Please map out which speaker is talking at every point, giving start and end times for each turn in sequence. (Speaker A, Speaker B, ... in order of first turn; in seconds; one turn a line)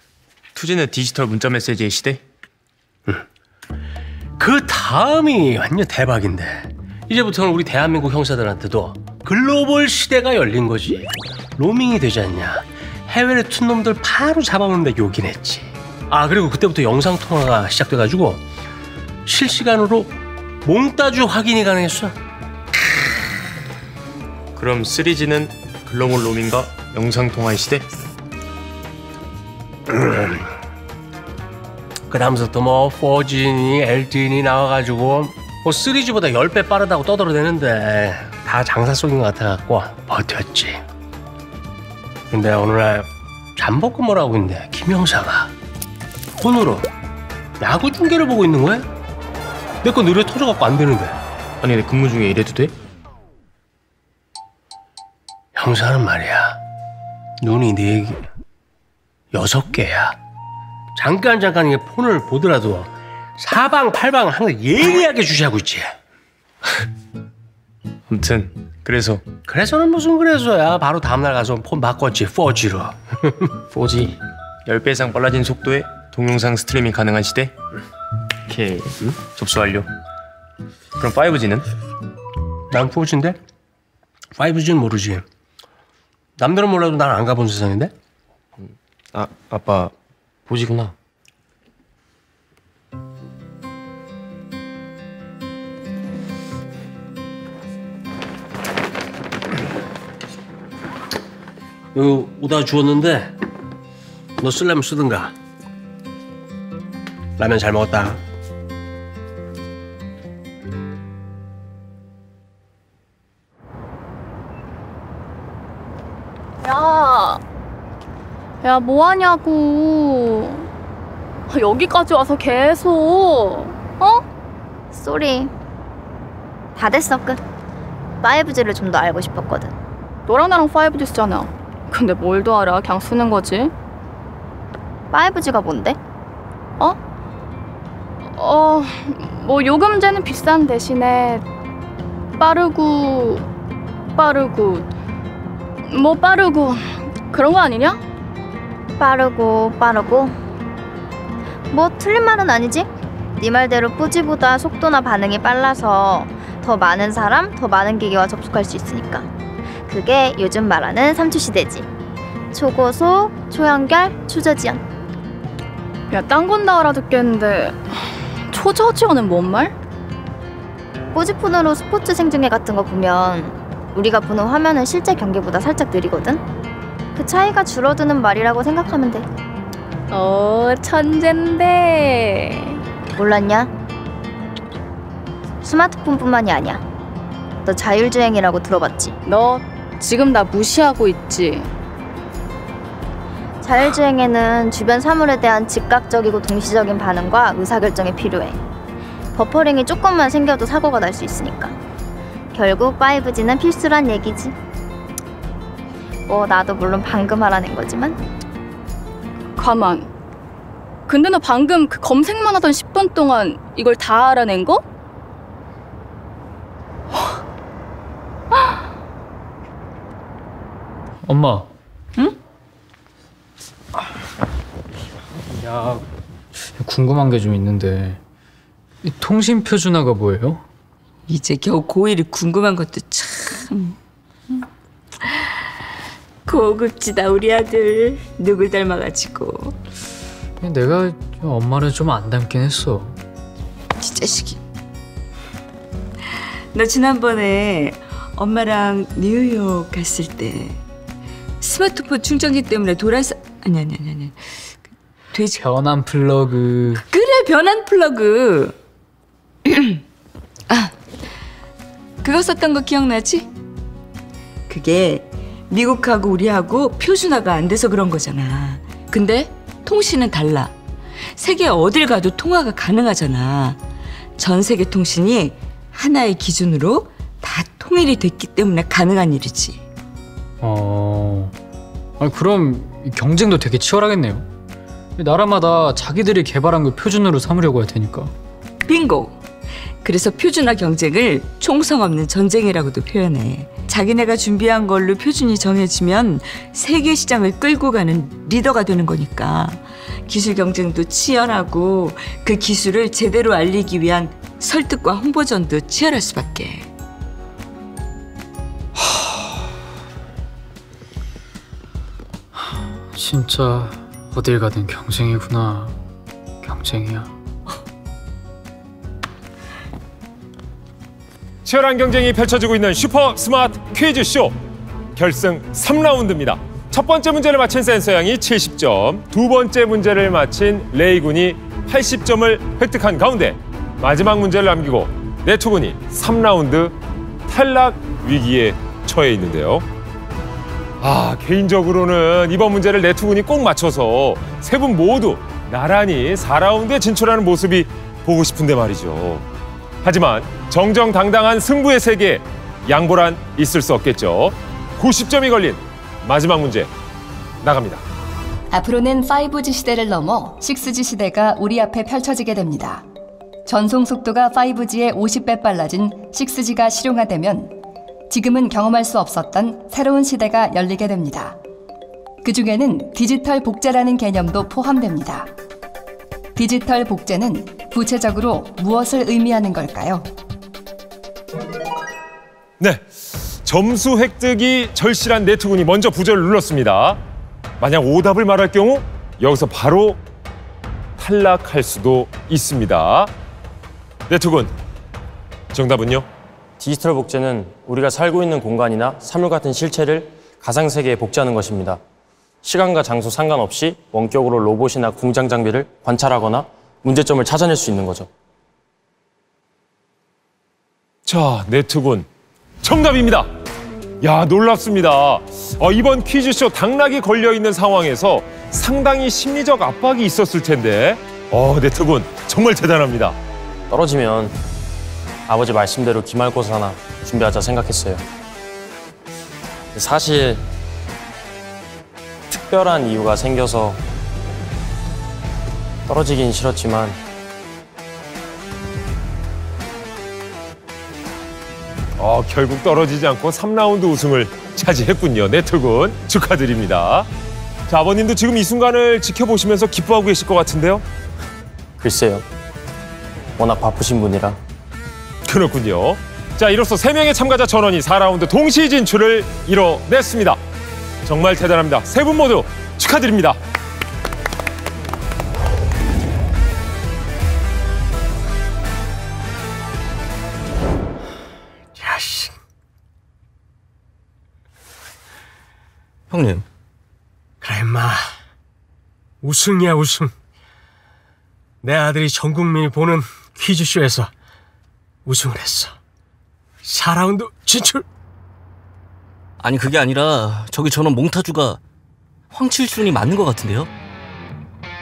Speaker A: 0.5-2.2
Speaker B: 4.4-18.4
Speaker B: 19.2-20.1
Speaker B: 20.6-22.1
Speaker A: 24.6-27.9
Speaker B: 29.9-30.5
Speaker B: 32.1-40.8
Speaker B: 42.3-45.5
Speaker B: 46.4-46.9
Speaker B: 47.6-48.9
Speaker B: 49.8-51.2
Speaker A: 51.6-52.7
Speaker B: 55.5-56.6
Speaker B: 57.4-58.2
Speaker B: 59.3-60.2
Speaker B: 60.9-65.9
Speaker A: 68.1-69.2
Speaker B: 69.5-73.5
Speaker A: 73.7-77.5
Speaker A: 78.5-79.9
Speaker A: 81.0-81.7
Speaker B: 82.7-83.4
Speaker B: 84.3-85.2
Speaker B: 86.4-87.9
Speaker A: 88.6-89.9
Speaker A: 90.5-90.9
Speaker B: 101.9-103.3
Speaker B: 104.4-105.3
Speaker B: 107.4-108.2
Speaker C: 116.6-117.4
Speaker C: 118.6-120.7
Speaker C: 121.5-124.2
Speaker D: 124.9-125.5
Speaker D: 126.8-127.4
Speaker D: 128.2-129.7
Speaker C: 130.3-133.7
Speaker D: 135.1-136.0
Speaker C: 138.3-141.4
Speaker C: 142.4-143.5
Speaker C: 144.1-144.9
Speaker C: 145.8-148.0
Speaker D: 149.0-150.3
Speaker D: 151.7-159.3
Speaker D: 159.8-161.9
Speaker D: 162.5-164.8
Speaker C: 166.1-169.7
Speaker D: 171.1-176.4
Speaker D: 177.1-179.3
Speaker C: 180.1-182.8
Speaker D: 183.2-183.7
Speaker D: 185.6-186.8
Speaker D: 187.6-189.1
Speaker C: 189.2-191.7
Speaker D: 193.6-198.6
Speaker D: 199.3-201.8
Speaker D: 202.5-204.5
Speaker D: 206.3-208.2
Speaker C: 209.6-210.1
Speaker C: 211.1-214.8
Speaker E: 221.2-221.7
Speaker E: 225.6-226.0
Speaker E: 226.8-228.2
Speaker E: 229.0-230.6
Speaker F: 231.3-233.9
Speaker F: 236.4-239.7
Speaker E: 240.6-243.2
Speaker F: 244.0-244.6
Speaker F: 246.7-250.8
Speaker F: 251.6-255.8
Speaker E: 255.6-257.0
Speaker F: 256.9-258.8
Speaker F: 259.7-260.0
Speaker F: 260.7-260.9
Speaker F: 262.2-263.5
Speaker F: 264.7-270.7
Speaker F: 271.3-273.8
Speaker F: 274.4-279.8
Speaker E: 280.6-281.5
Speaker E: 282.2-284.5
Speaker E: 285.1-288.3
Speaker F: 288.8-289.4
Speaker F: 290.0-306.9
Speaker E: 309.0-309.5
Speaker E: 312.6-316.0
Speaker E: 316.6-317.3
Speaker G: 321.6-324.5
Speaker G: 325.1-336.9
Speaker G: 337.5-339.8
Speaker G: 341.0-349.4
Speaker G: 350.0-356.9
Speaker G: 357.6-358.0
Speaker H: 358.7-363.0
Speaker H: 363.6-367.8
Speaker H: 368.3-371.6
Speaker H: 372.4-375.5
Speaker H: 376.6-380.3
Speaker G: 383.6-387.2
Speaker G: 387.8-390.2
Speaker G: 391.2-393.3
Speaker G: 394.3-394.7
Speaker G: 395.7-396.3
Speaker A: 396.8-402.0
Speaker A: 402.6-408.3
Speaker G: 411.2-412.2
Speaker G: 412.8-413.5
Speaker G: 414.2-423.4
Speaker A: 423.9-424.5
Speaker A: 425.5-428.2
Speaker A: 429.9-430.6
Speaker A: 432.5-434.0
Speaker A: 436.1-437.2
Speaker G: 442.2-447.3
Speaker G: 447.9-451.0
Speaker A: 452.0-452.4
Speaker A: 453.6-454.6
Speaker G: 455.5-460.6
Speaker G: 461.2-463.6
Speaker B: 471.9-472.5
Speaker I: 476.3-476.6
Speaker B: 477.6-478.3
Speaker B: 479.4-480.3
Speaker B: 481.8-484.3
Speaker B: 485.2-486.0
Speaker B: 486.8-488.0
Speaker I: 489.6-491.8
Speaker I: 492.5-493.9